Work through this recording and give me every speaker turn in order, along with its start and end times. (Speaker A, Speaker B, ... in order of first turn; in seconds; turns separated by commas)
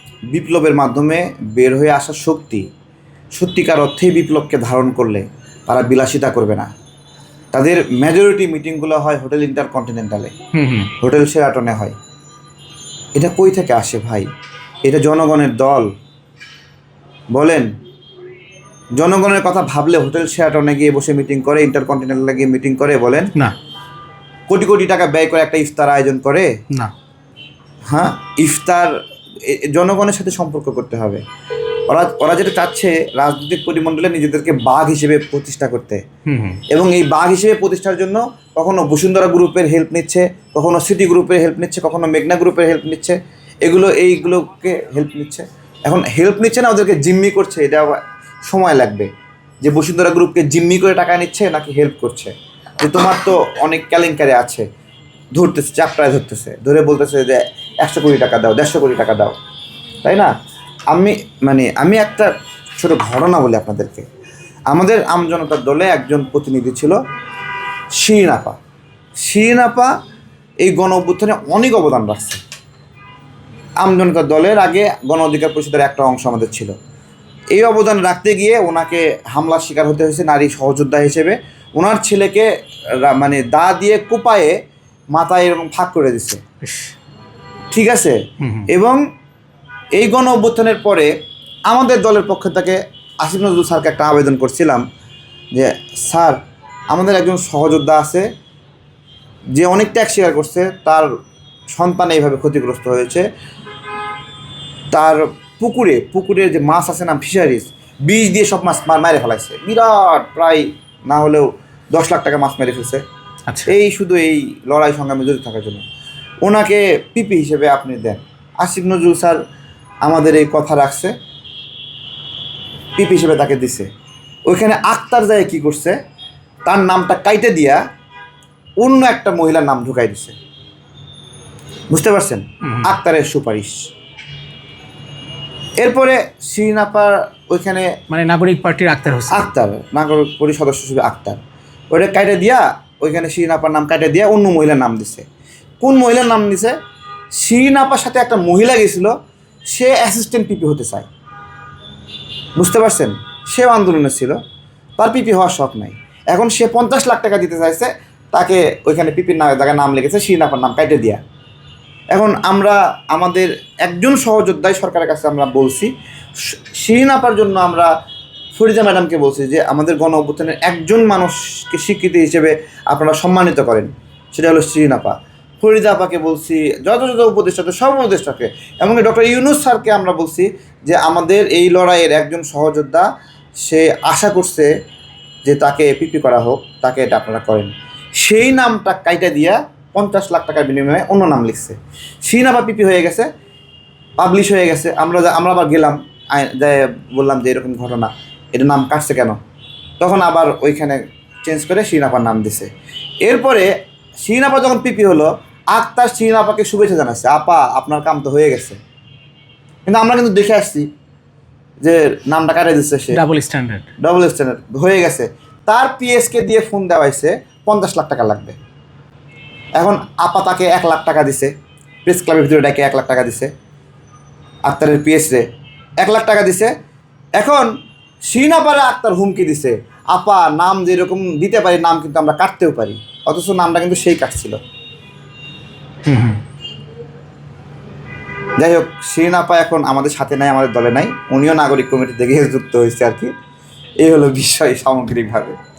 Speaker A: 0.3-2.6, Speaker A: 3.4-6.7, Speaker A: 7.5-10.3, Speaker B: 10.5-10.9, Speaker A: 11.0-11.9, Speaker A: 13.1-14.3, Speaker A: 14.8-15.9, Speaker A: 17.3-17.7, Speaker A: 18.9-23.3, Speaker A: 24.5-26.5, Speaker A: 27.9-31.2, Speaker A: 31.9-36.0, Speaker B: 36.3-36.6, Speaker A: 36.7-49.1, Speaker A: 49.6-54.7, Speaker A: 55.3-59.4, Speaker A: 60.0-60.3, Speaker A: 60.9-64.1, Speaker A: 64.7-67.0, Speaker A: 68.0-68.6, Speaker A: 69.2-69.9, Speaker A: 70.6-72.4, Speaker A: 73.8-76.8, Speaker A: 77.5-84.6, Speaker A: 85.1-86.4, Speaker B: 86.6-86.9, Speaker A: 87.7-89.0, Speaker B: 88.4-88.7, Speaker A: 89.9-91.1, Speaker A: 91.7-94.8, Speaker A: 95.5-96.4, Speaker A: 96.9-98.3, Speaker A: 99.5-101.1, Speaker A: 101.7-103.3, Speaker A: 104.9-113.0, Speaker A: 113.6-115.8, Speaker A: 116.4-119.4, Speaker A: 120.0-121.1, Speaker A: 123.0-123.9, Speaker A: 124.5-126.0, Speaker A: 126.7-127.8, Speaker A: 128.8-130.3, Speaker A: 131.9-133.9, Speaker B: 132.6-132.9, Speaker A: 135.8-138.0, Speaker B: 138.1-139.4, Speaker A: 139.3-141.4, Speaker A: 141.9-145.3, Speaker A: 145.8-146.8, Speaker A: 147.3-149.2, Speaker A: 149.7-151.1, Speaker A: 152.6-154.4, Speaker A: 155.0-161.2, Speaker A: 162.1-165.9, Speaker A: 166.5-167.9, Speaker A: 168.5-183.1, Speaker A: 183.6-184.7, Speaker A: 185.4-193.3, Speaker A: 194.2-199.4, Speaker A: 200.0-202.7, Speaker A: 203.2-208.8, Speaker A: 209.8-210.9, Speaker A: 211.8-213.2, Speaker B: 213.1-213.9, Speaker A: 214.0-218.6, Speaker A: 219.8-221.5, Speaker A: 222.1-223.5, Speaker A: 224.7-225.5, Speaker A: 226.0-226.7, Speaker A: 227.4-227.7, Speaker A: 228.3-234.6, Speaker B: 236.1-236.4, Speaker A: 238.6-243.3, Speaker A: 244.0-245.6